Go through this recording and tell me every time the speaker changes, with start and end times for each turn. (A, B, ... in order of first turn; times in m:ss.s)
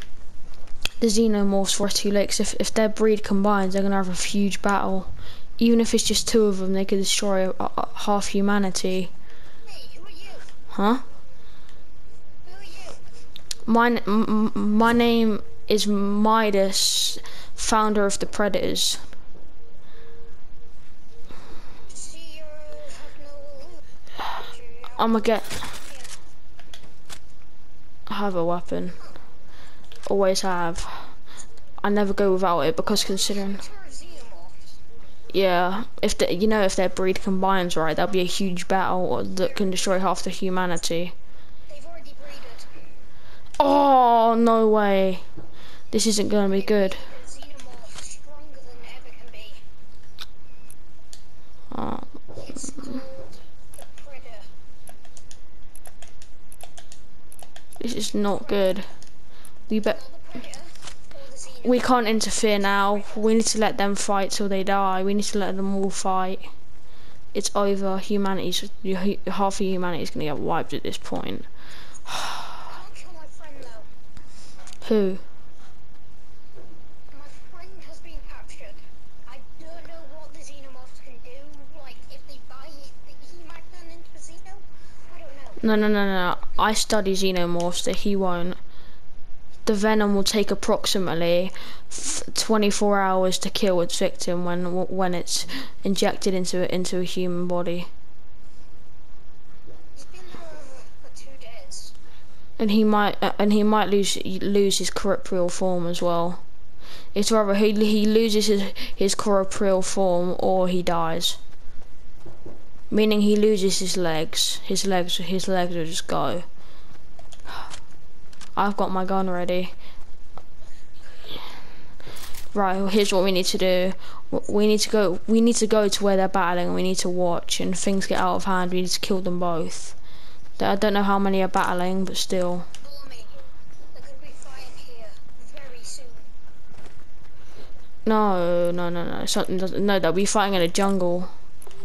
0:01.0-0:09.1 A
0:09.6-0:10.5 B
0:10.7-0:11.0 A
0:12.4-0:13.0 B
0:13.7-0:19.0 A
0:21.8-0:26.2 B
0:24.9-0:25.7 A
0:28.1-0:29.0 A
0:30.1-0:31.1 A
0:31.8-0:33.6 A
0:32.9-0:34.7 B
0:35.3-0:41.1 A
0:39.3-0:40.0 B
0:41.7-0:42.8 B
0:43.6-0:45.2 A
0:45.9-0:47.0 A
0:46.4-0:49.6 B
0:51.7-0:52.9 A
0:52.4-0:54.5 B
0:57.8-0:58.8 A
0:58.3-0:58.8 B
0:59.7-1:00.0 A
0:59.8-1:03.4 B
1:01.6-1:06.5 A
1:07.3-1:11.5 A
1:12.1-1:12.7 A
1:12.6-1:13.9 B
1:14.8-1:15.2 A
1:17.1-1:25.8 B
1:25.6-1:28.6 A
1:29.6-1:37.9 A
1:39.9-1:41.9 B
1:42.6-1:46.4 A
1:47.1-1:51.4 A
1:52.9-1:56.4 A
1:58.6-1:59.7 A
2:02.5-2:10.0 A
2:10.6-2:12.7 A
2:12.8-2:16.3 B
2:18.0-2:21.3 A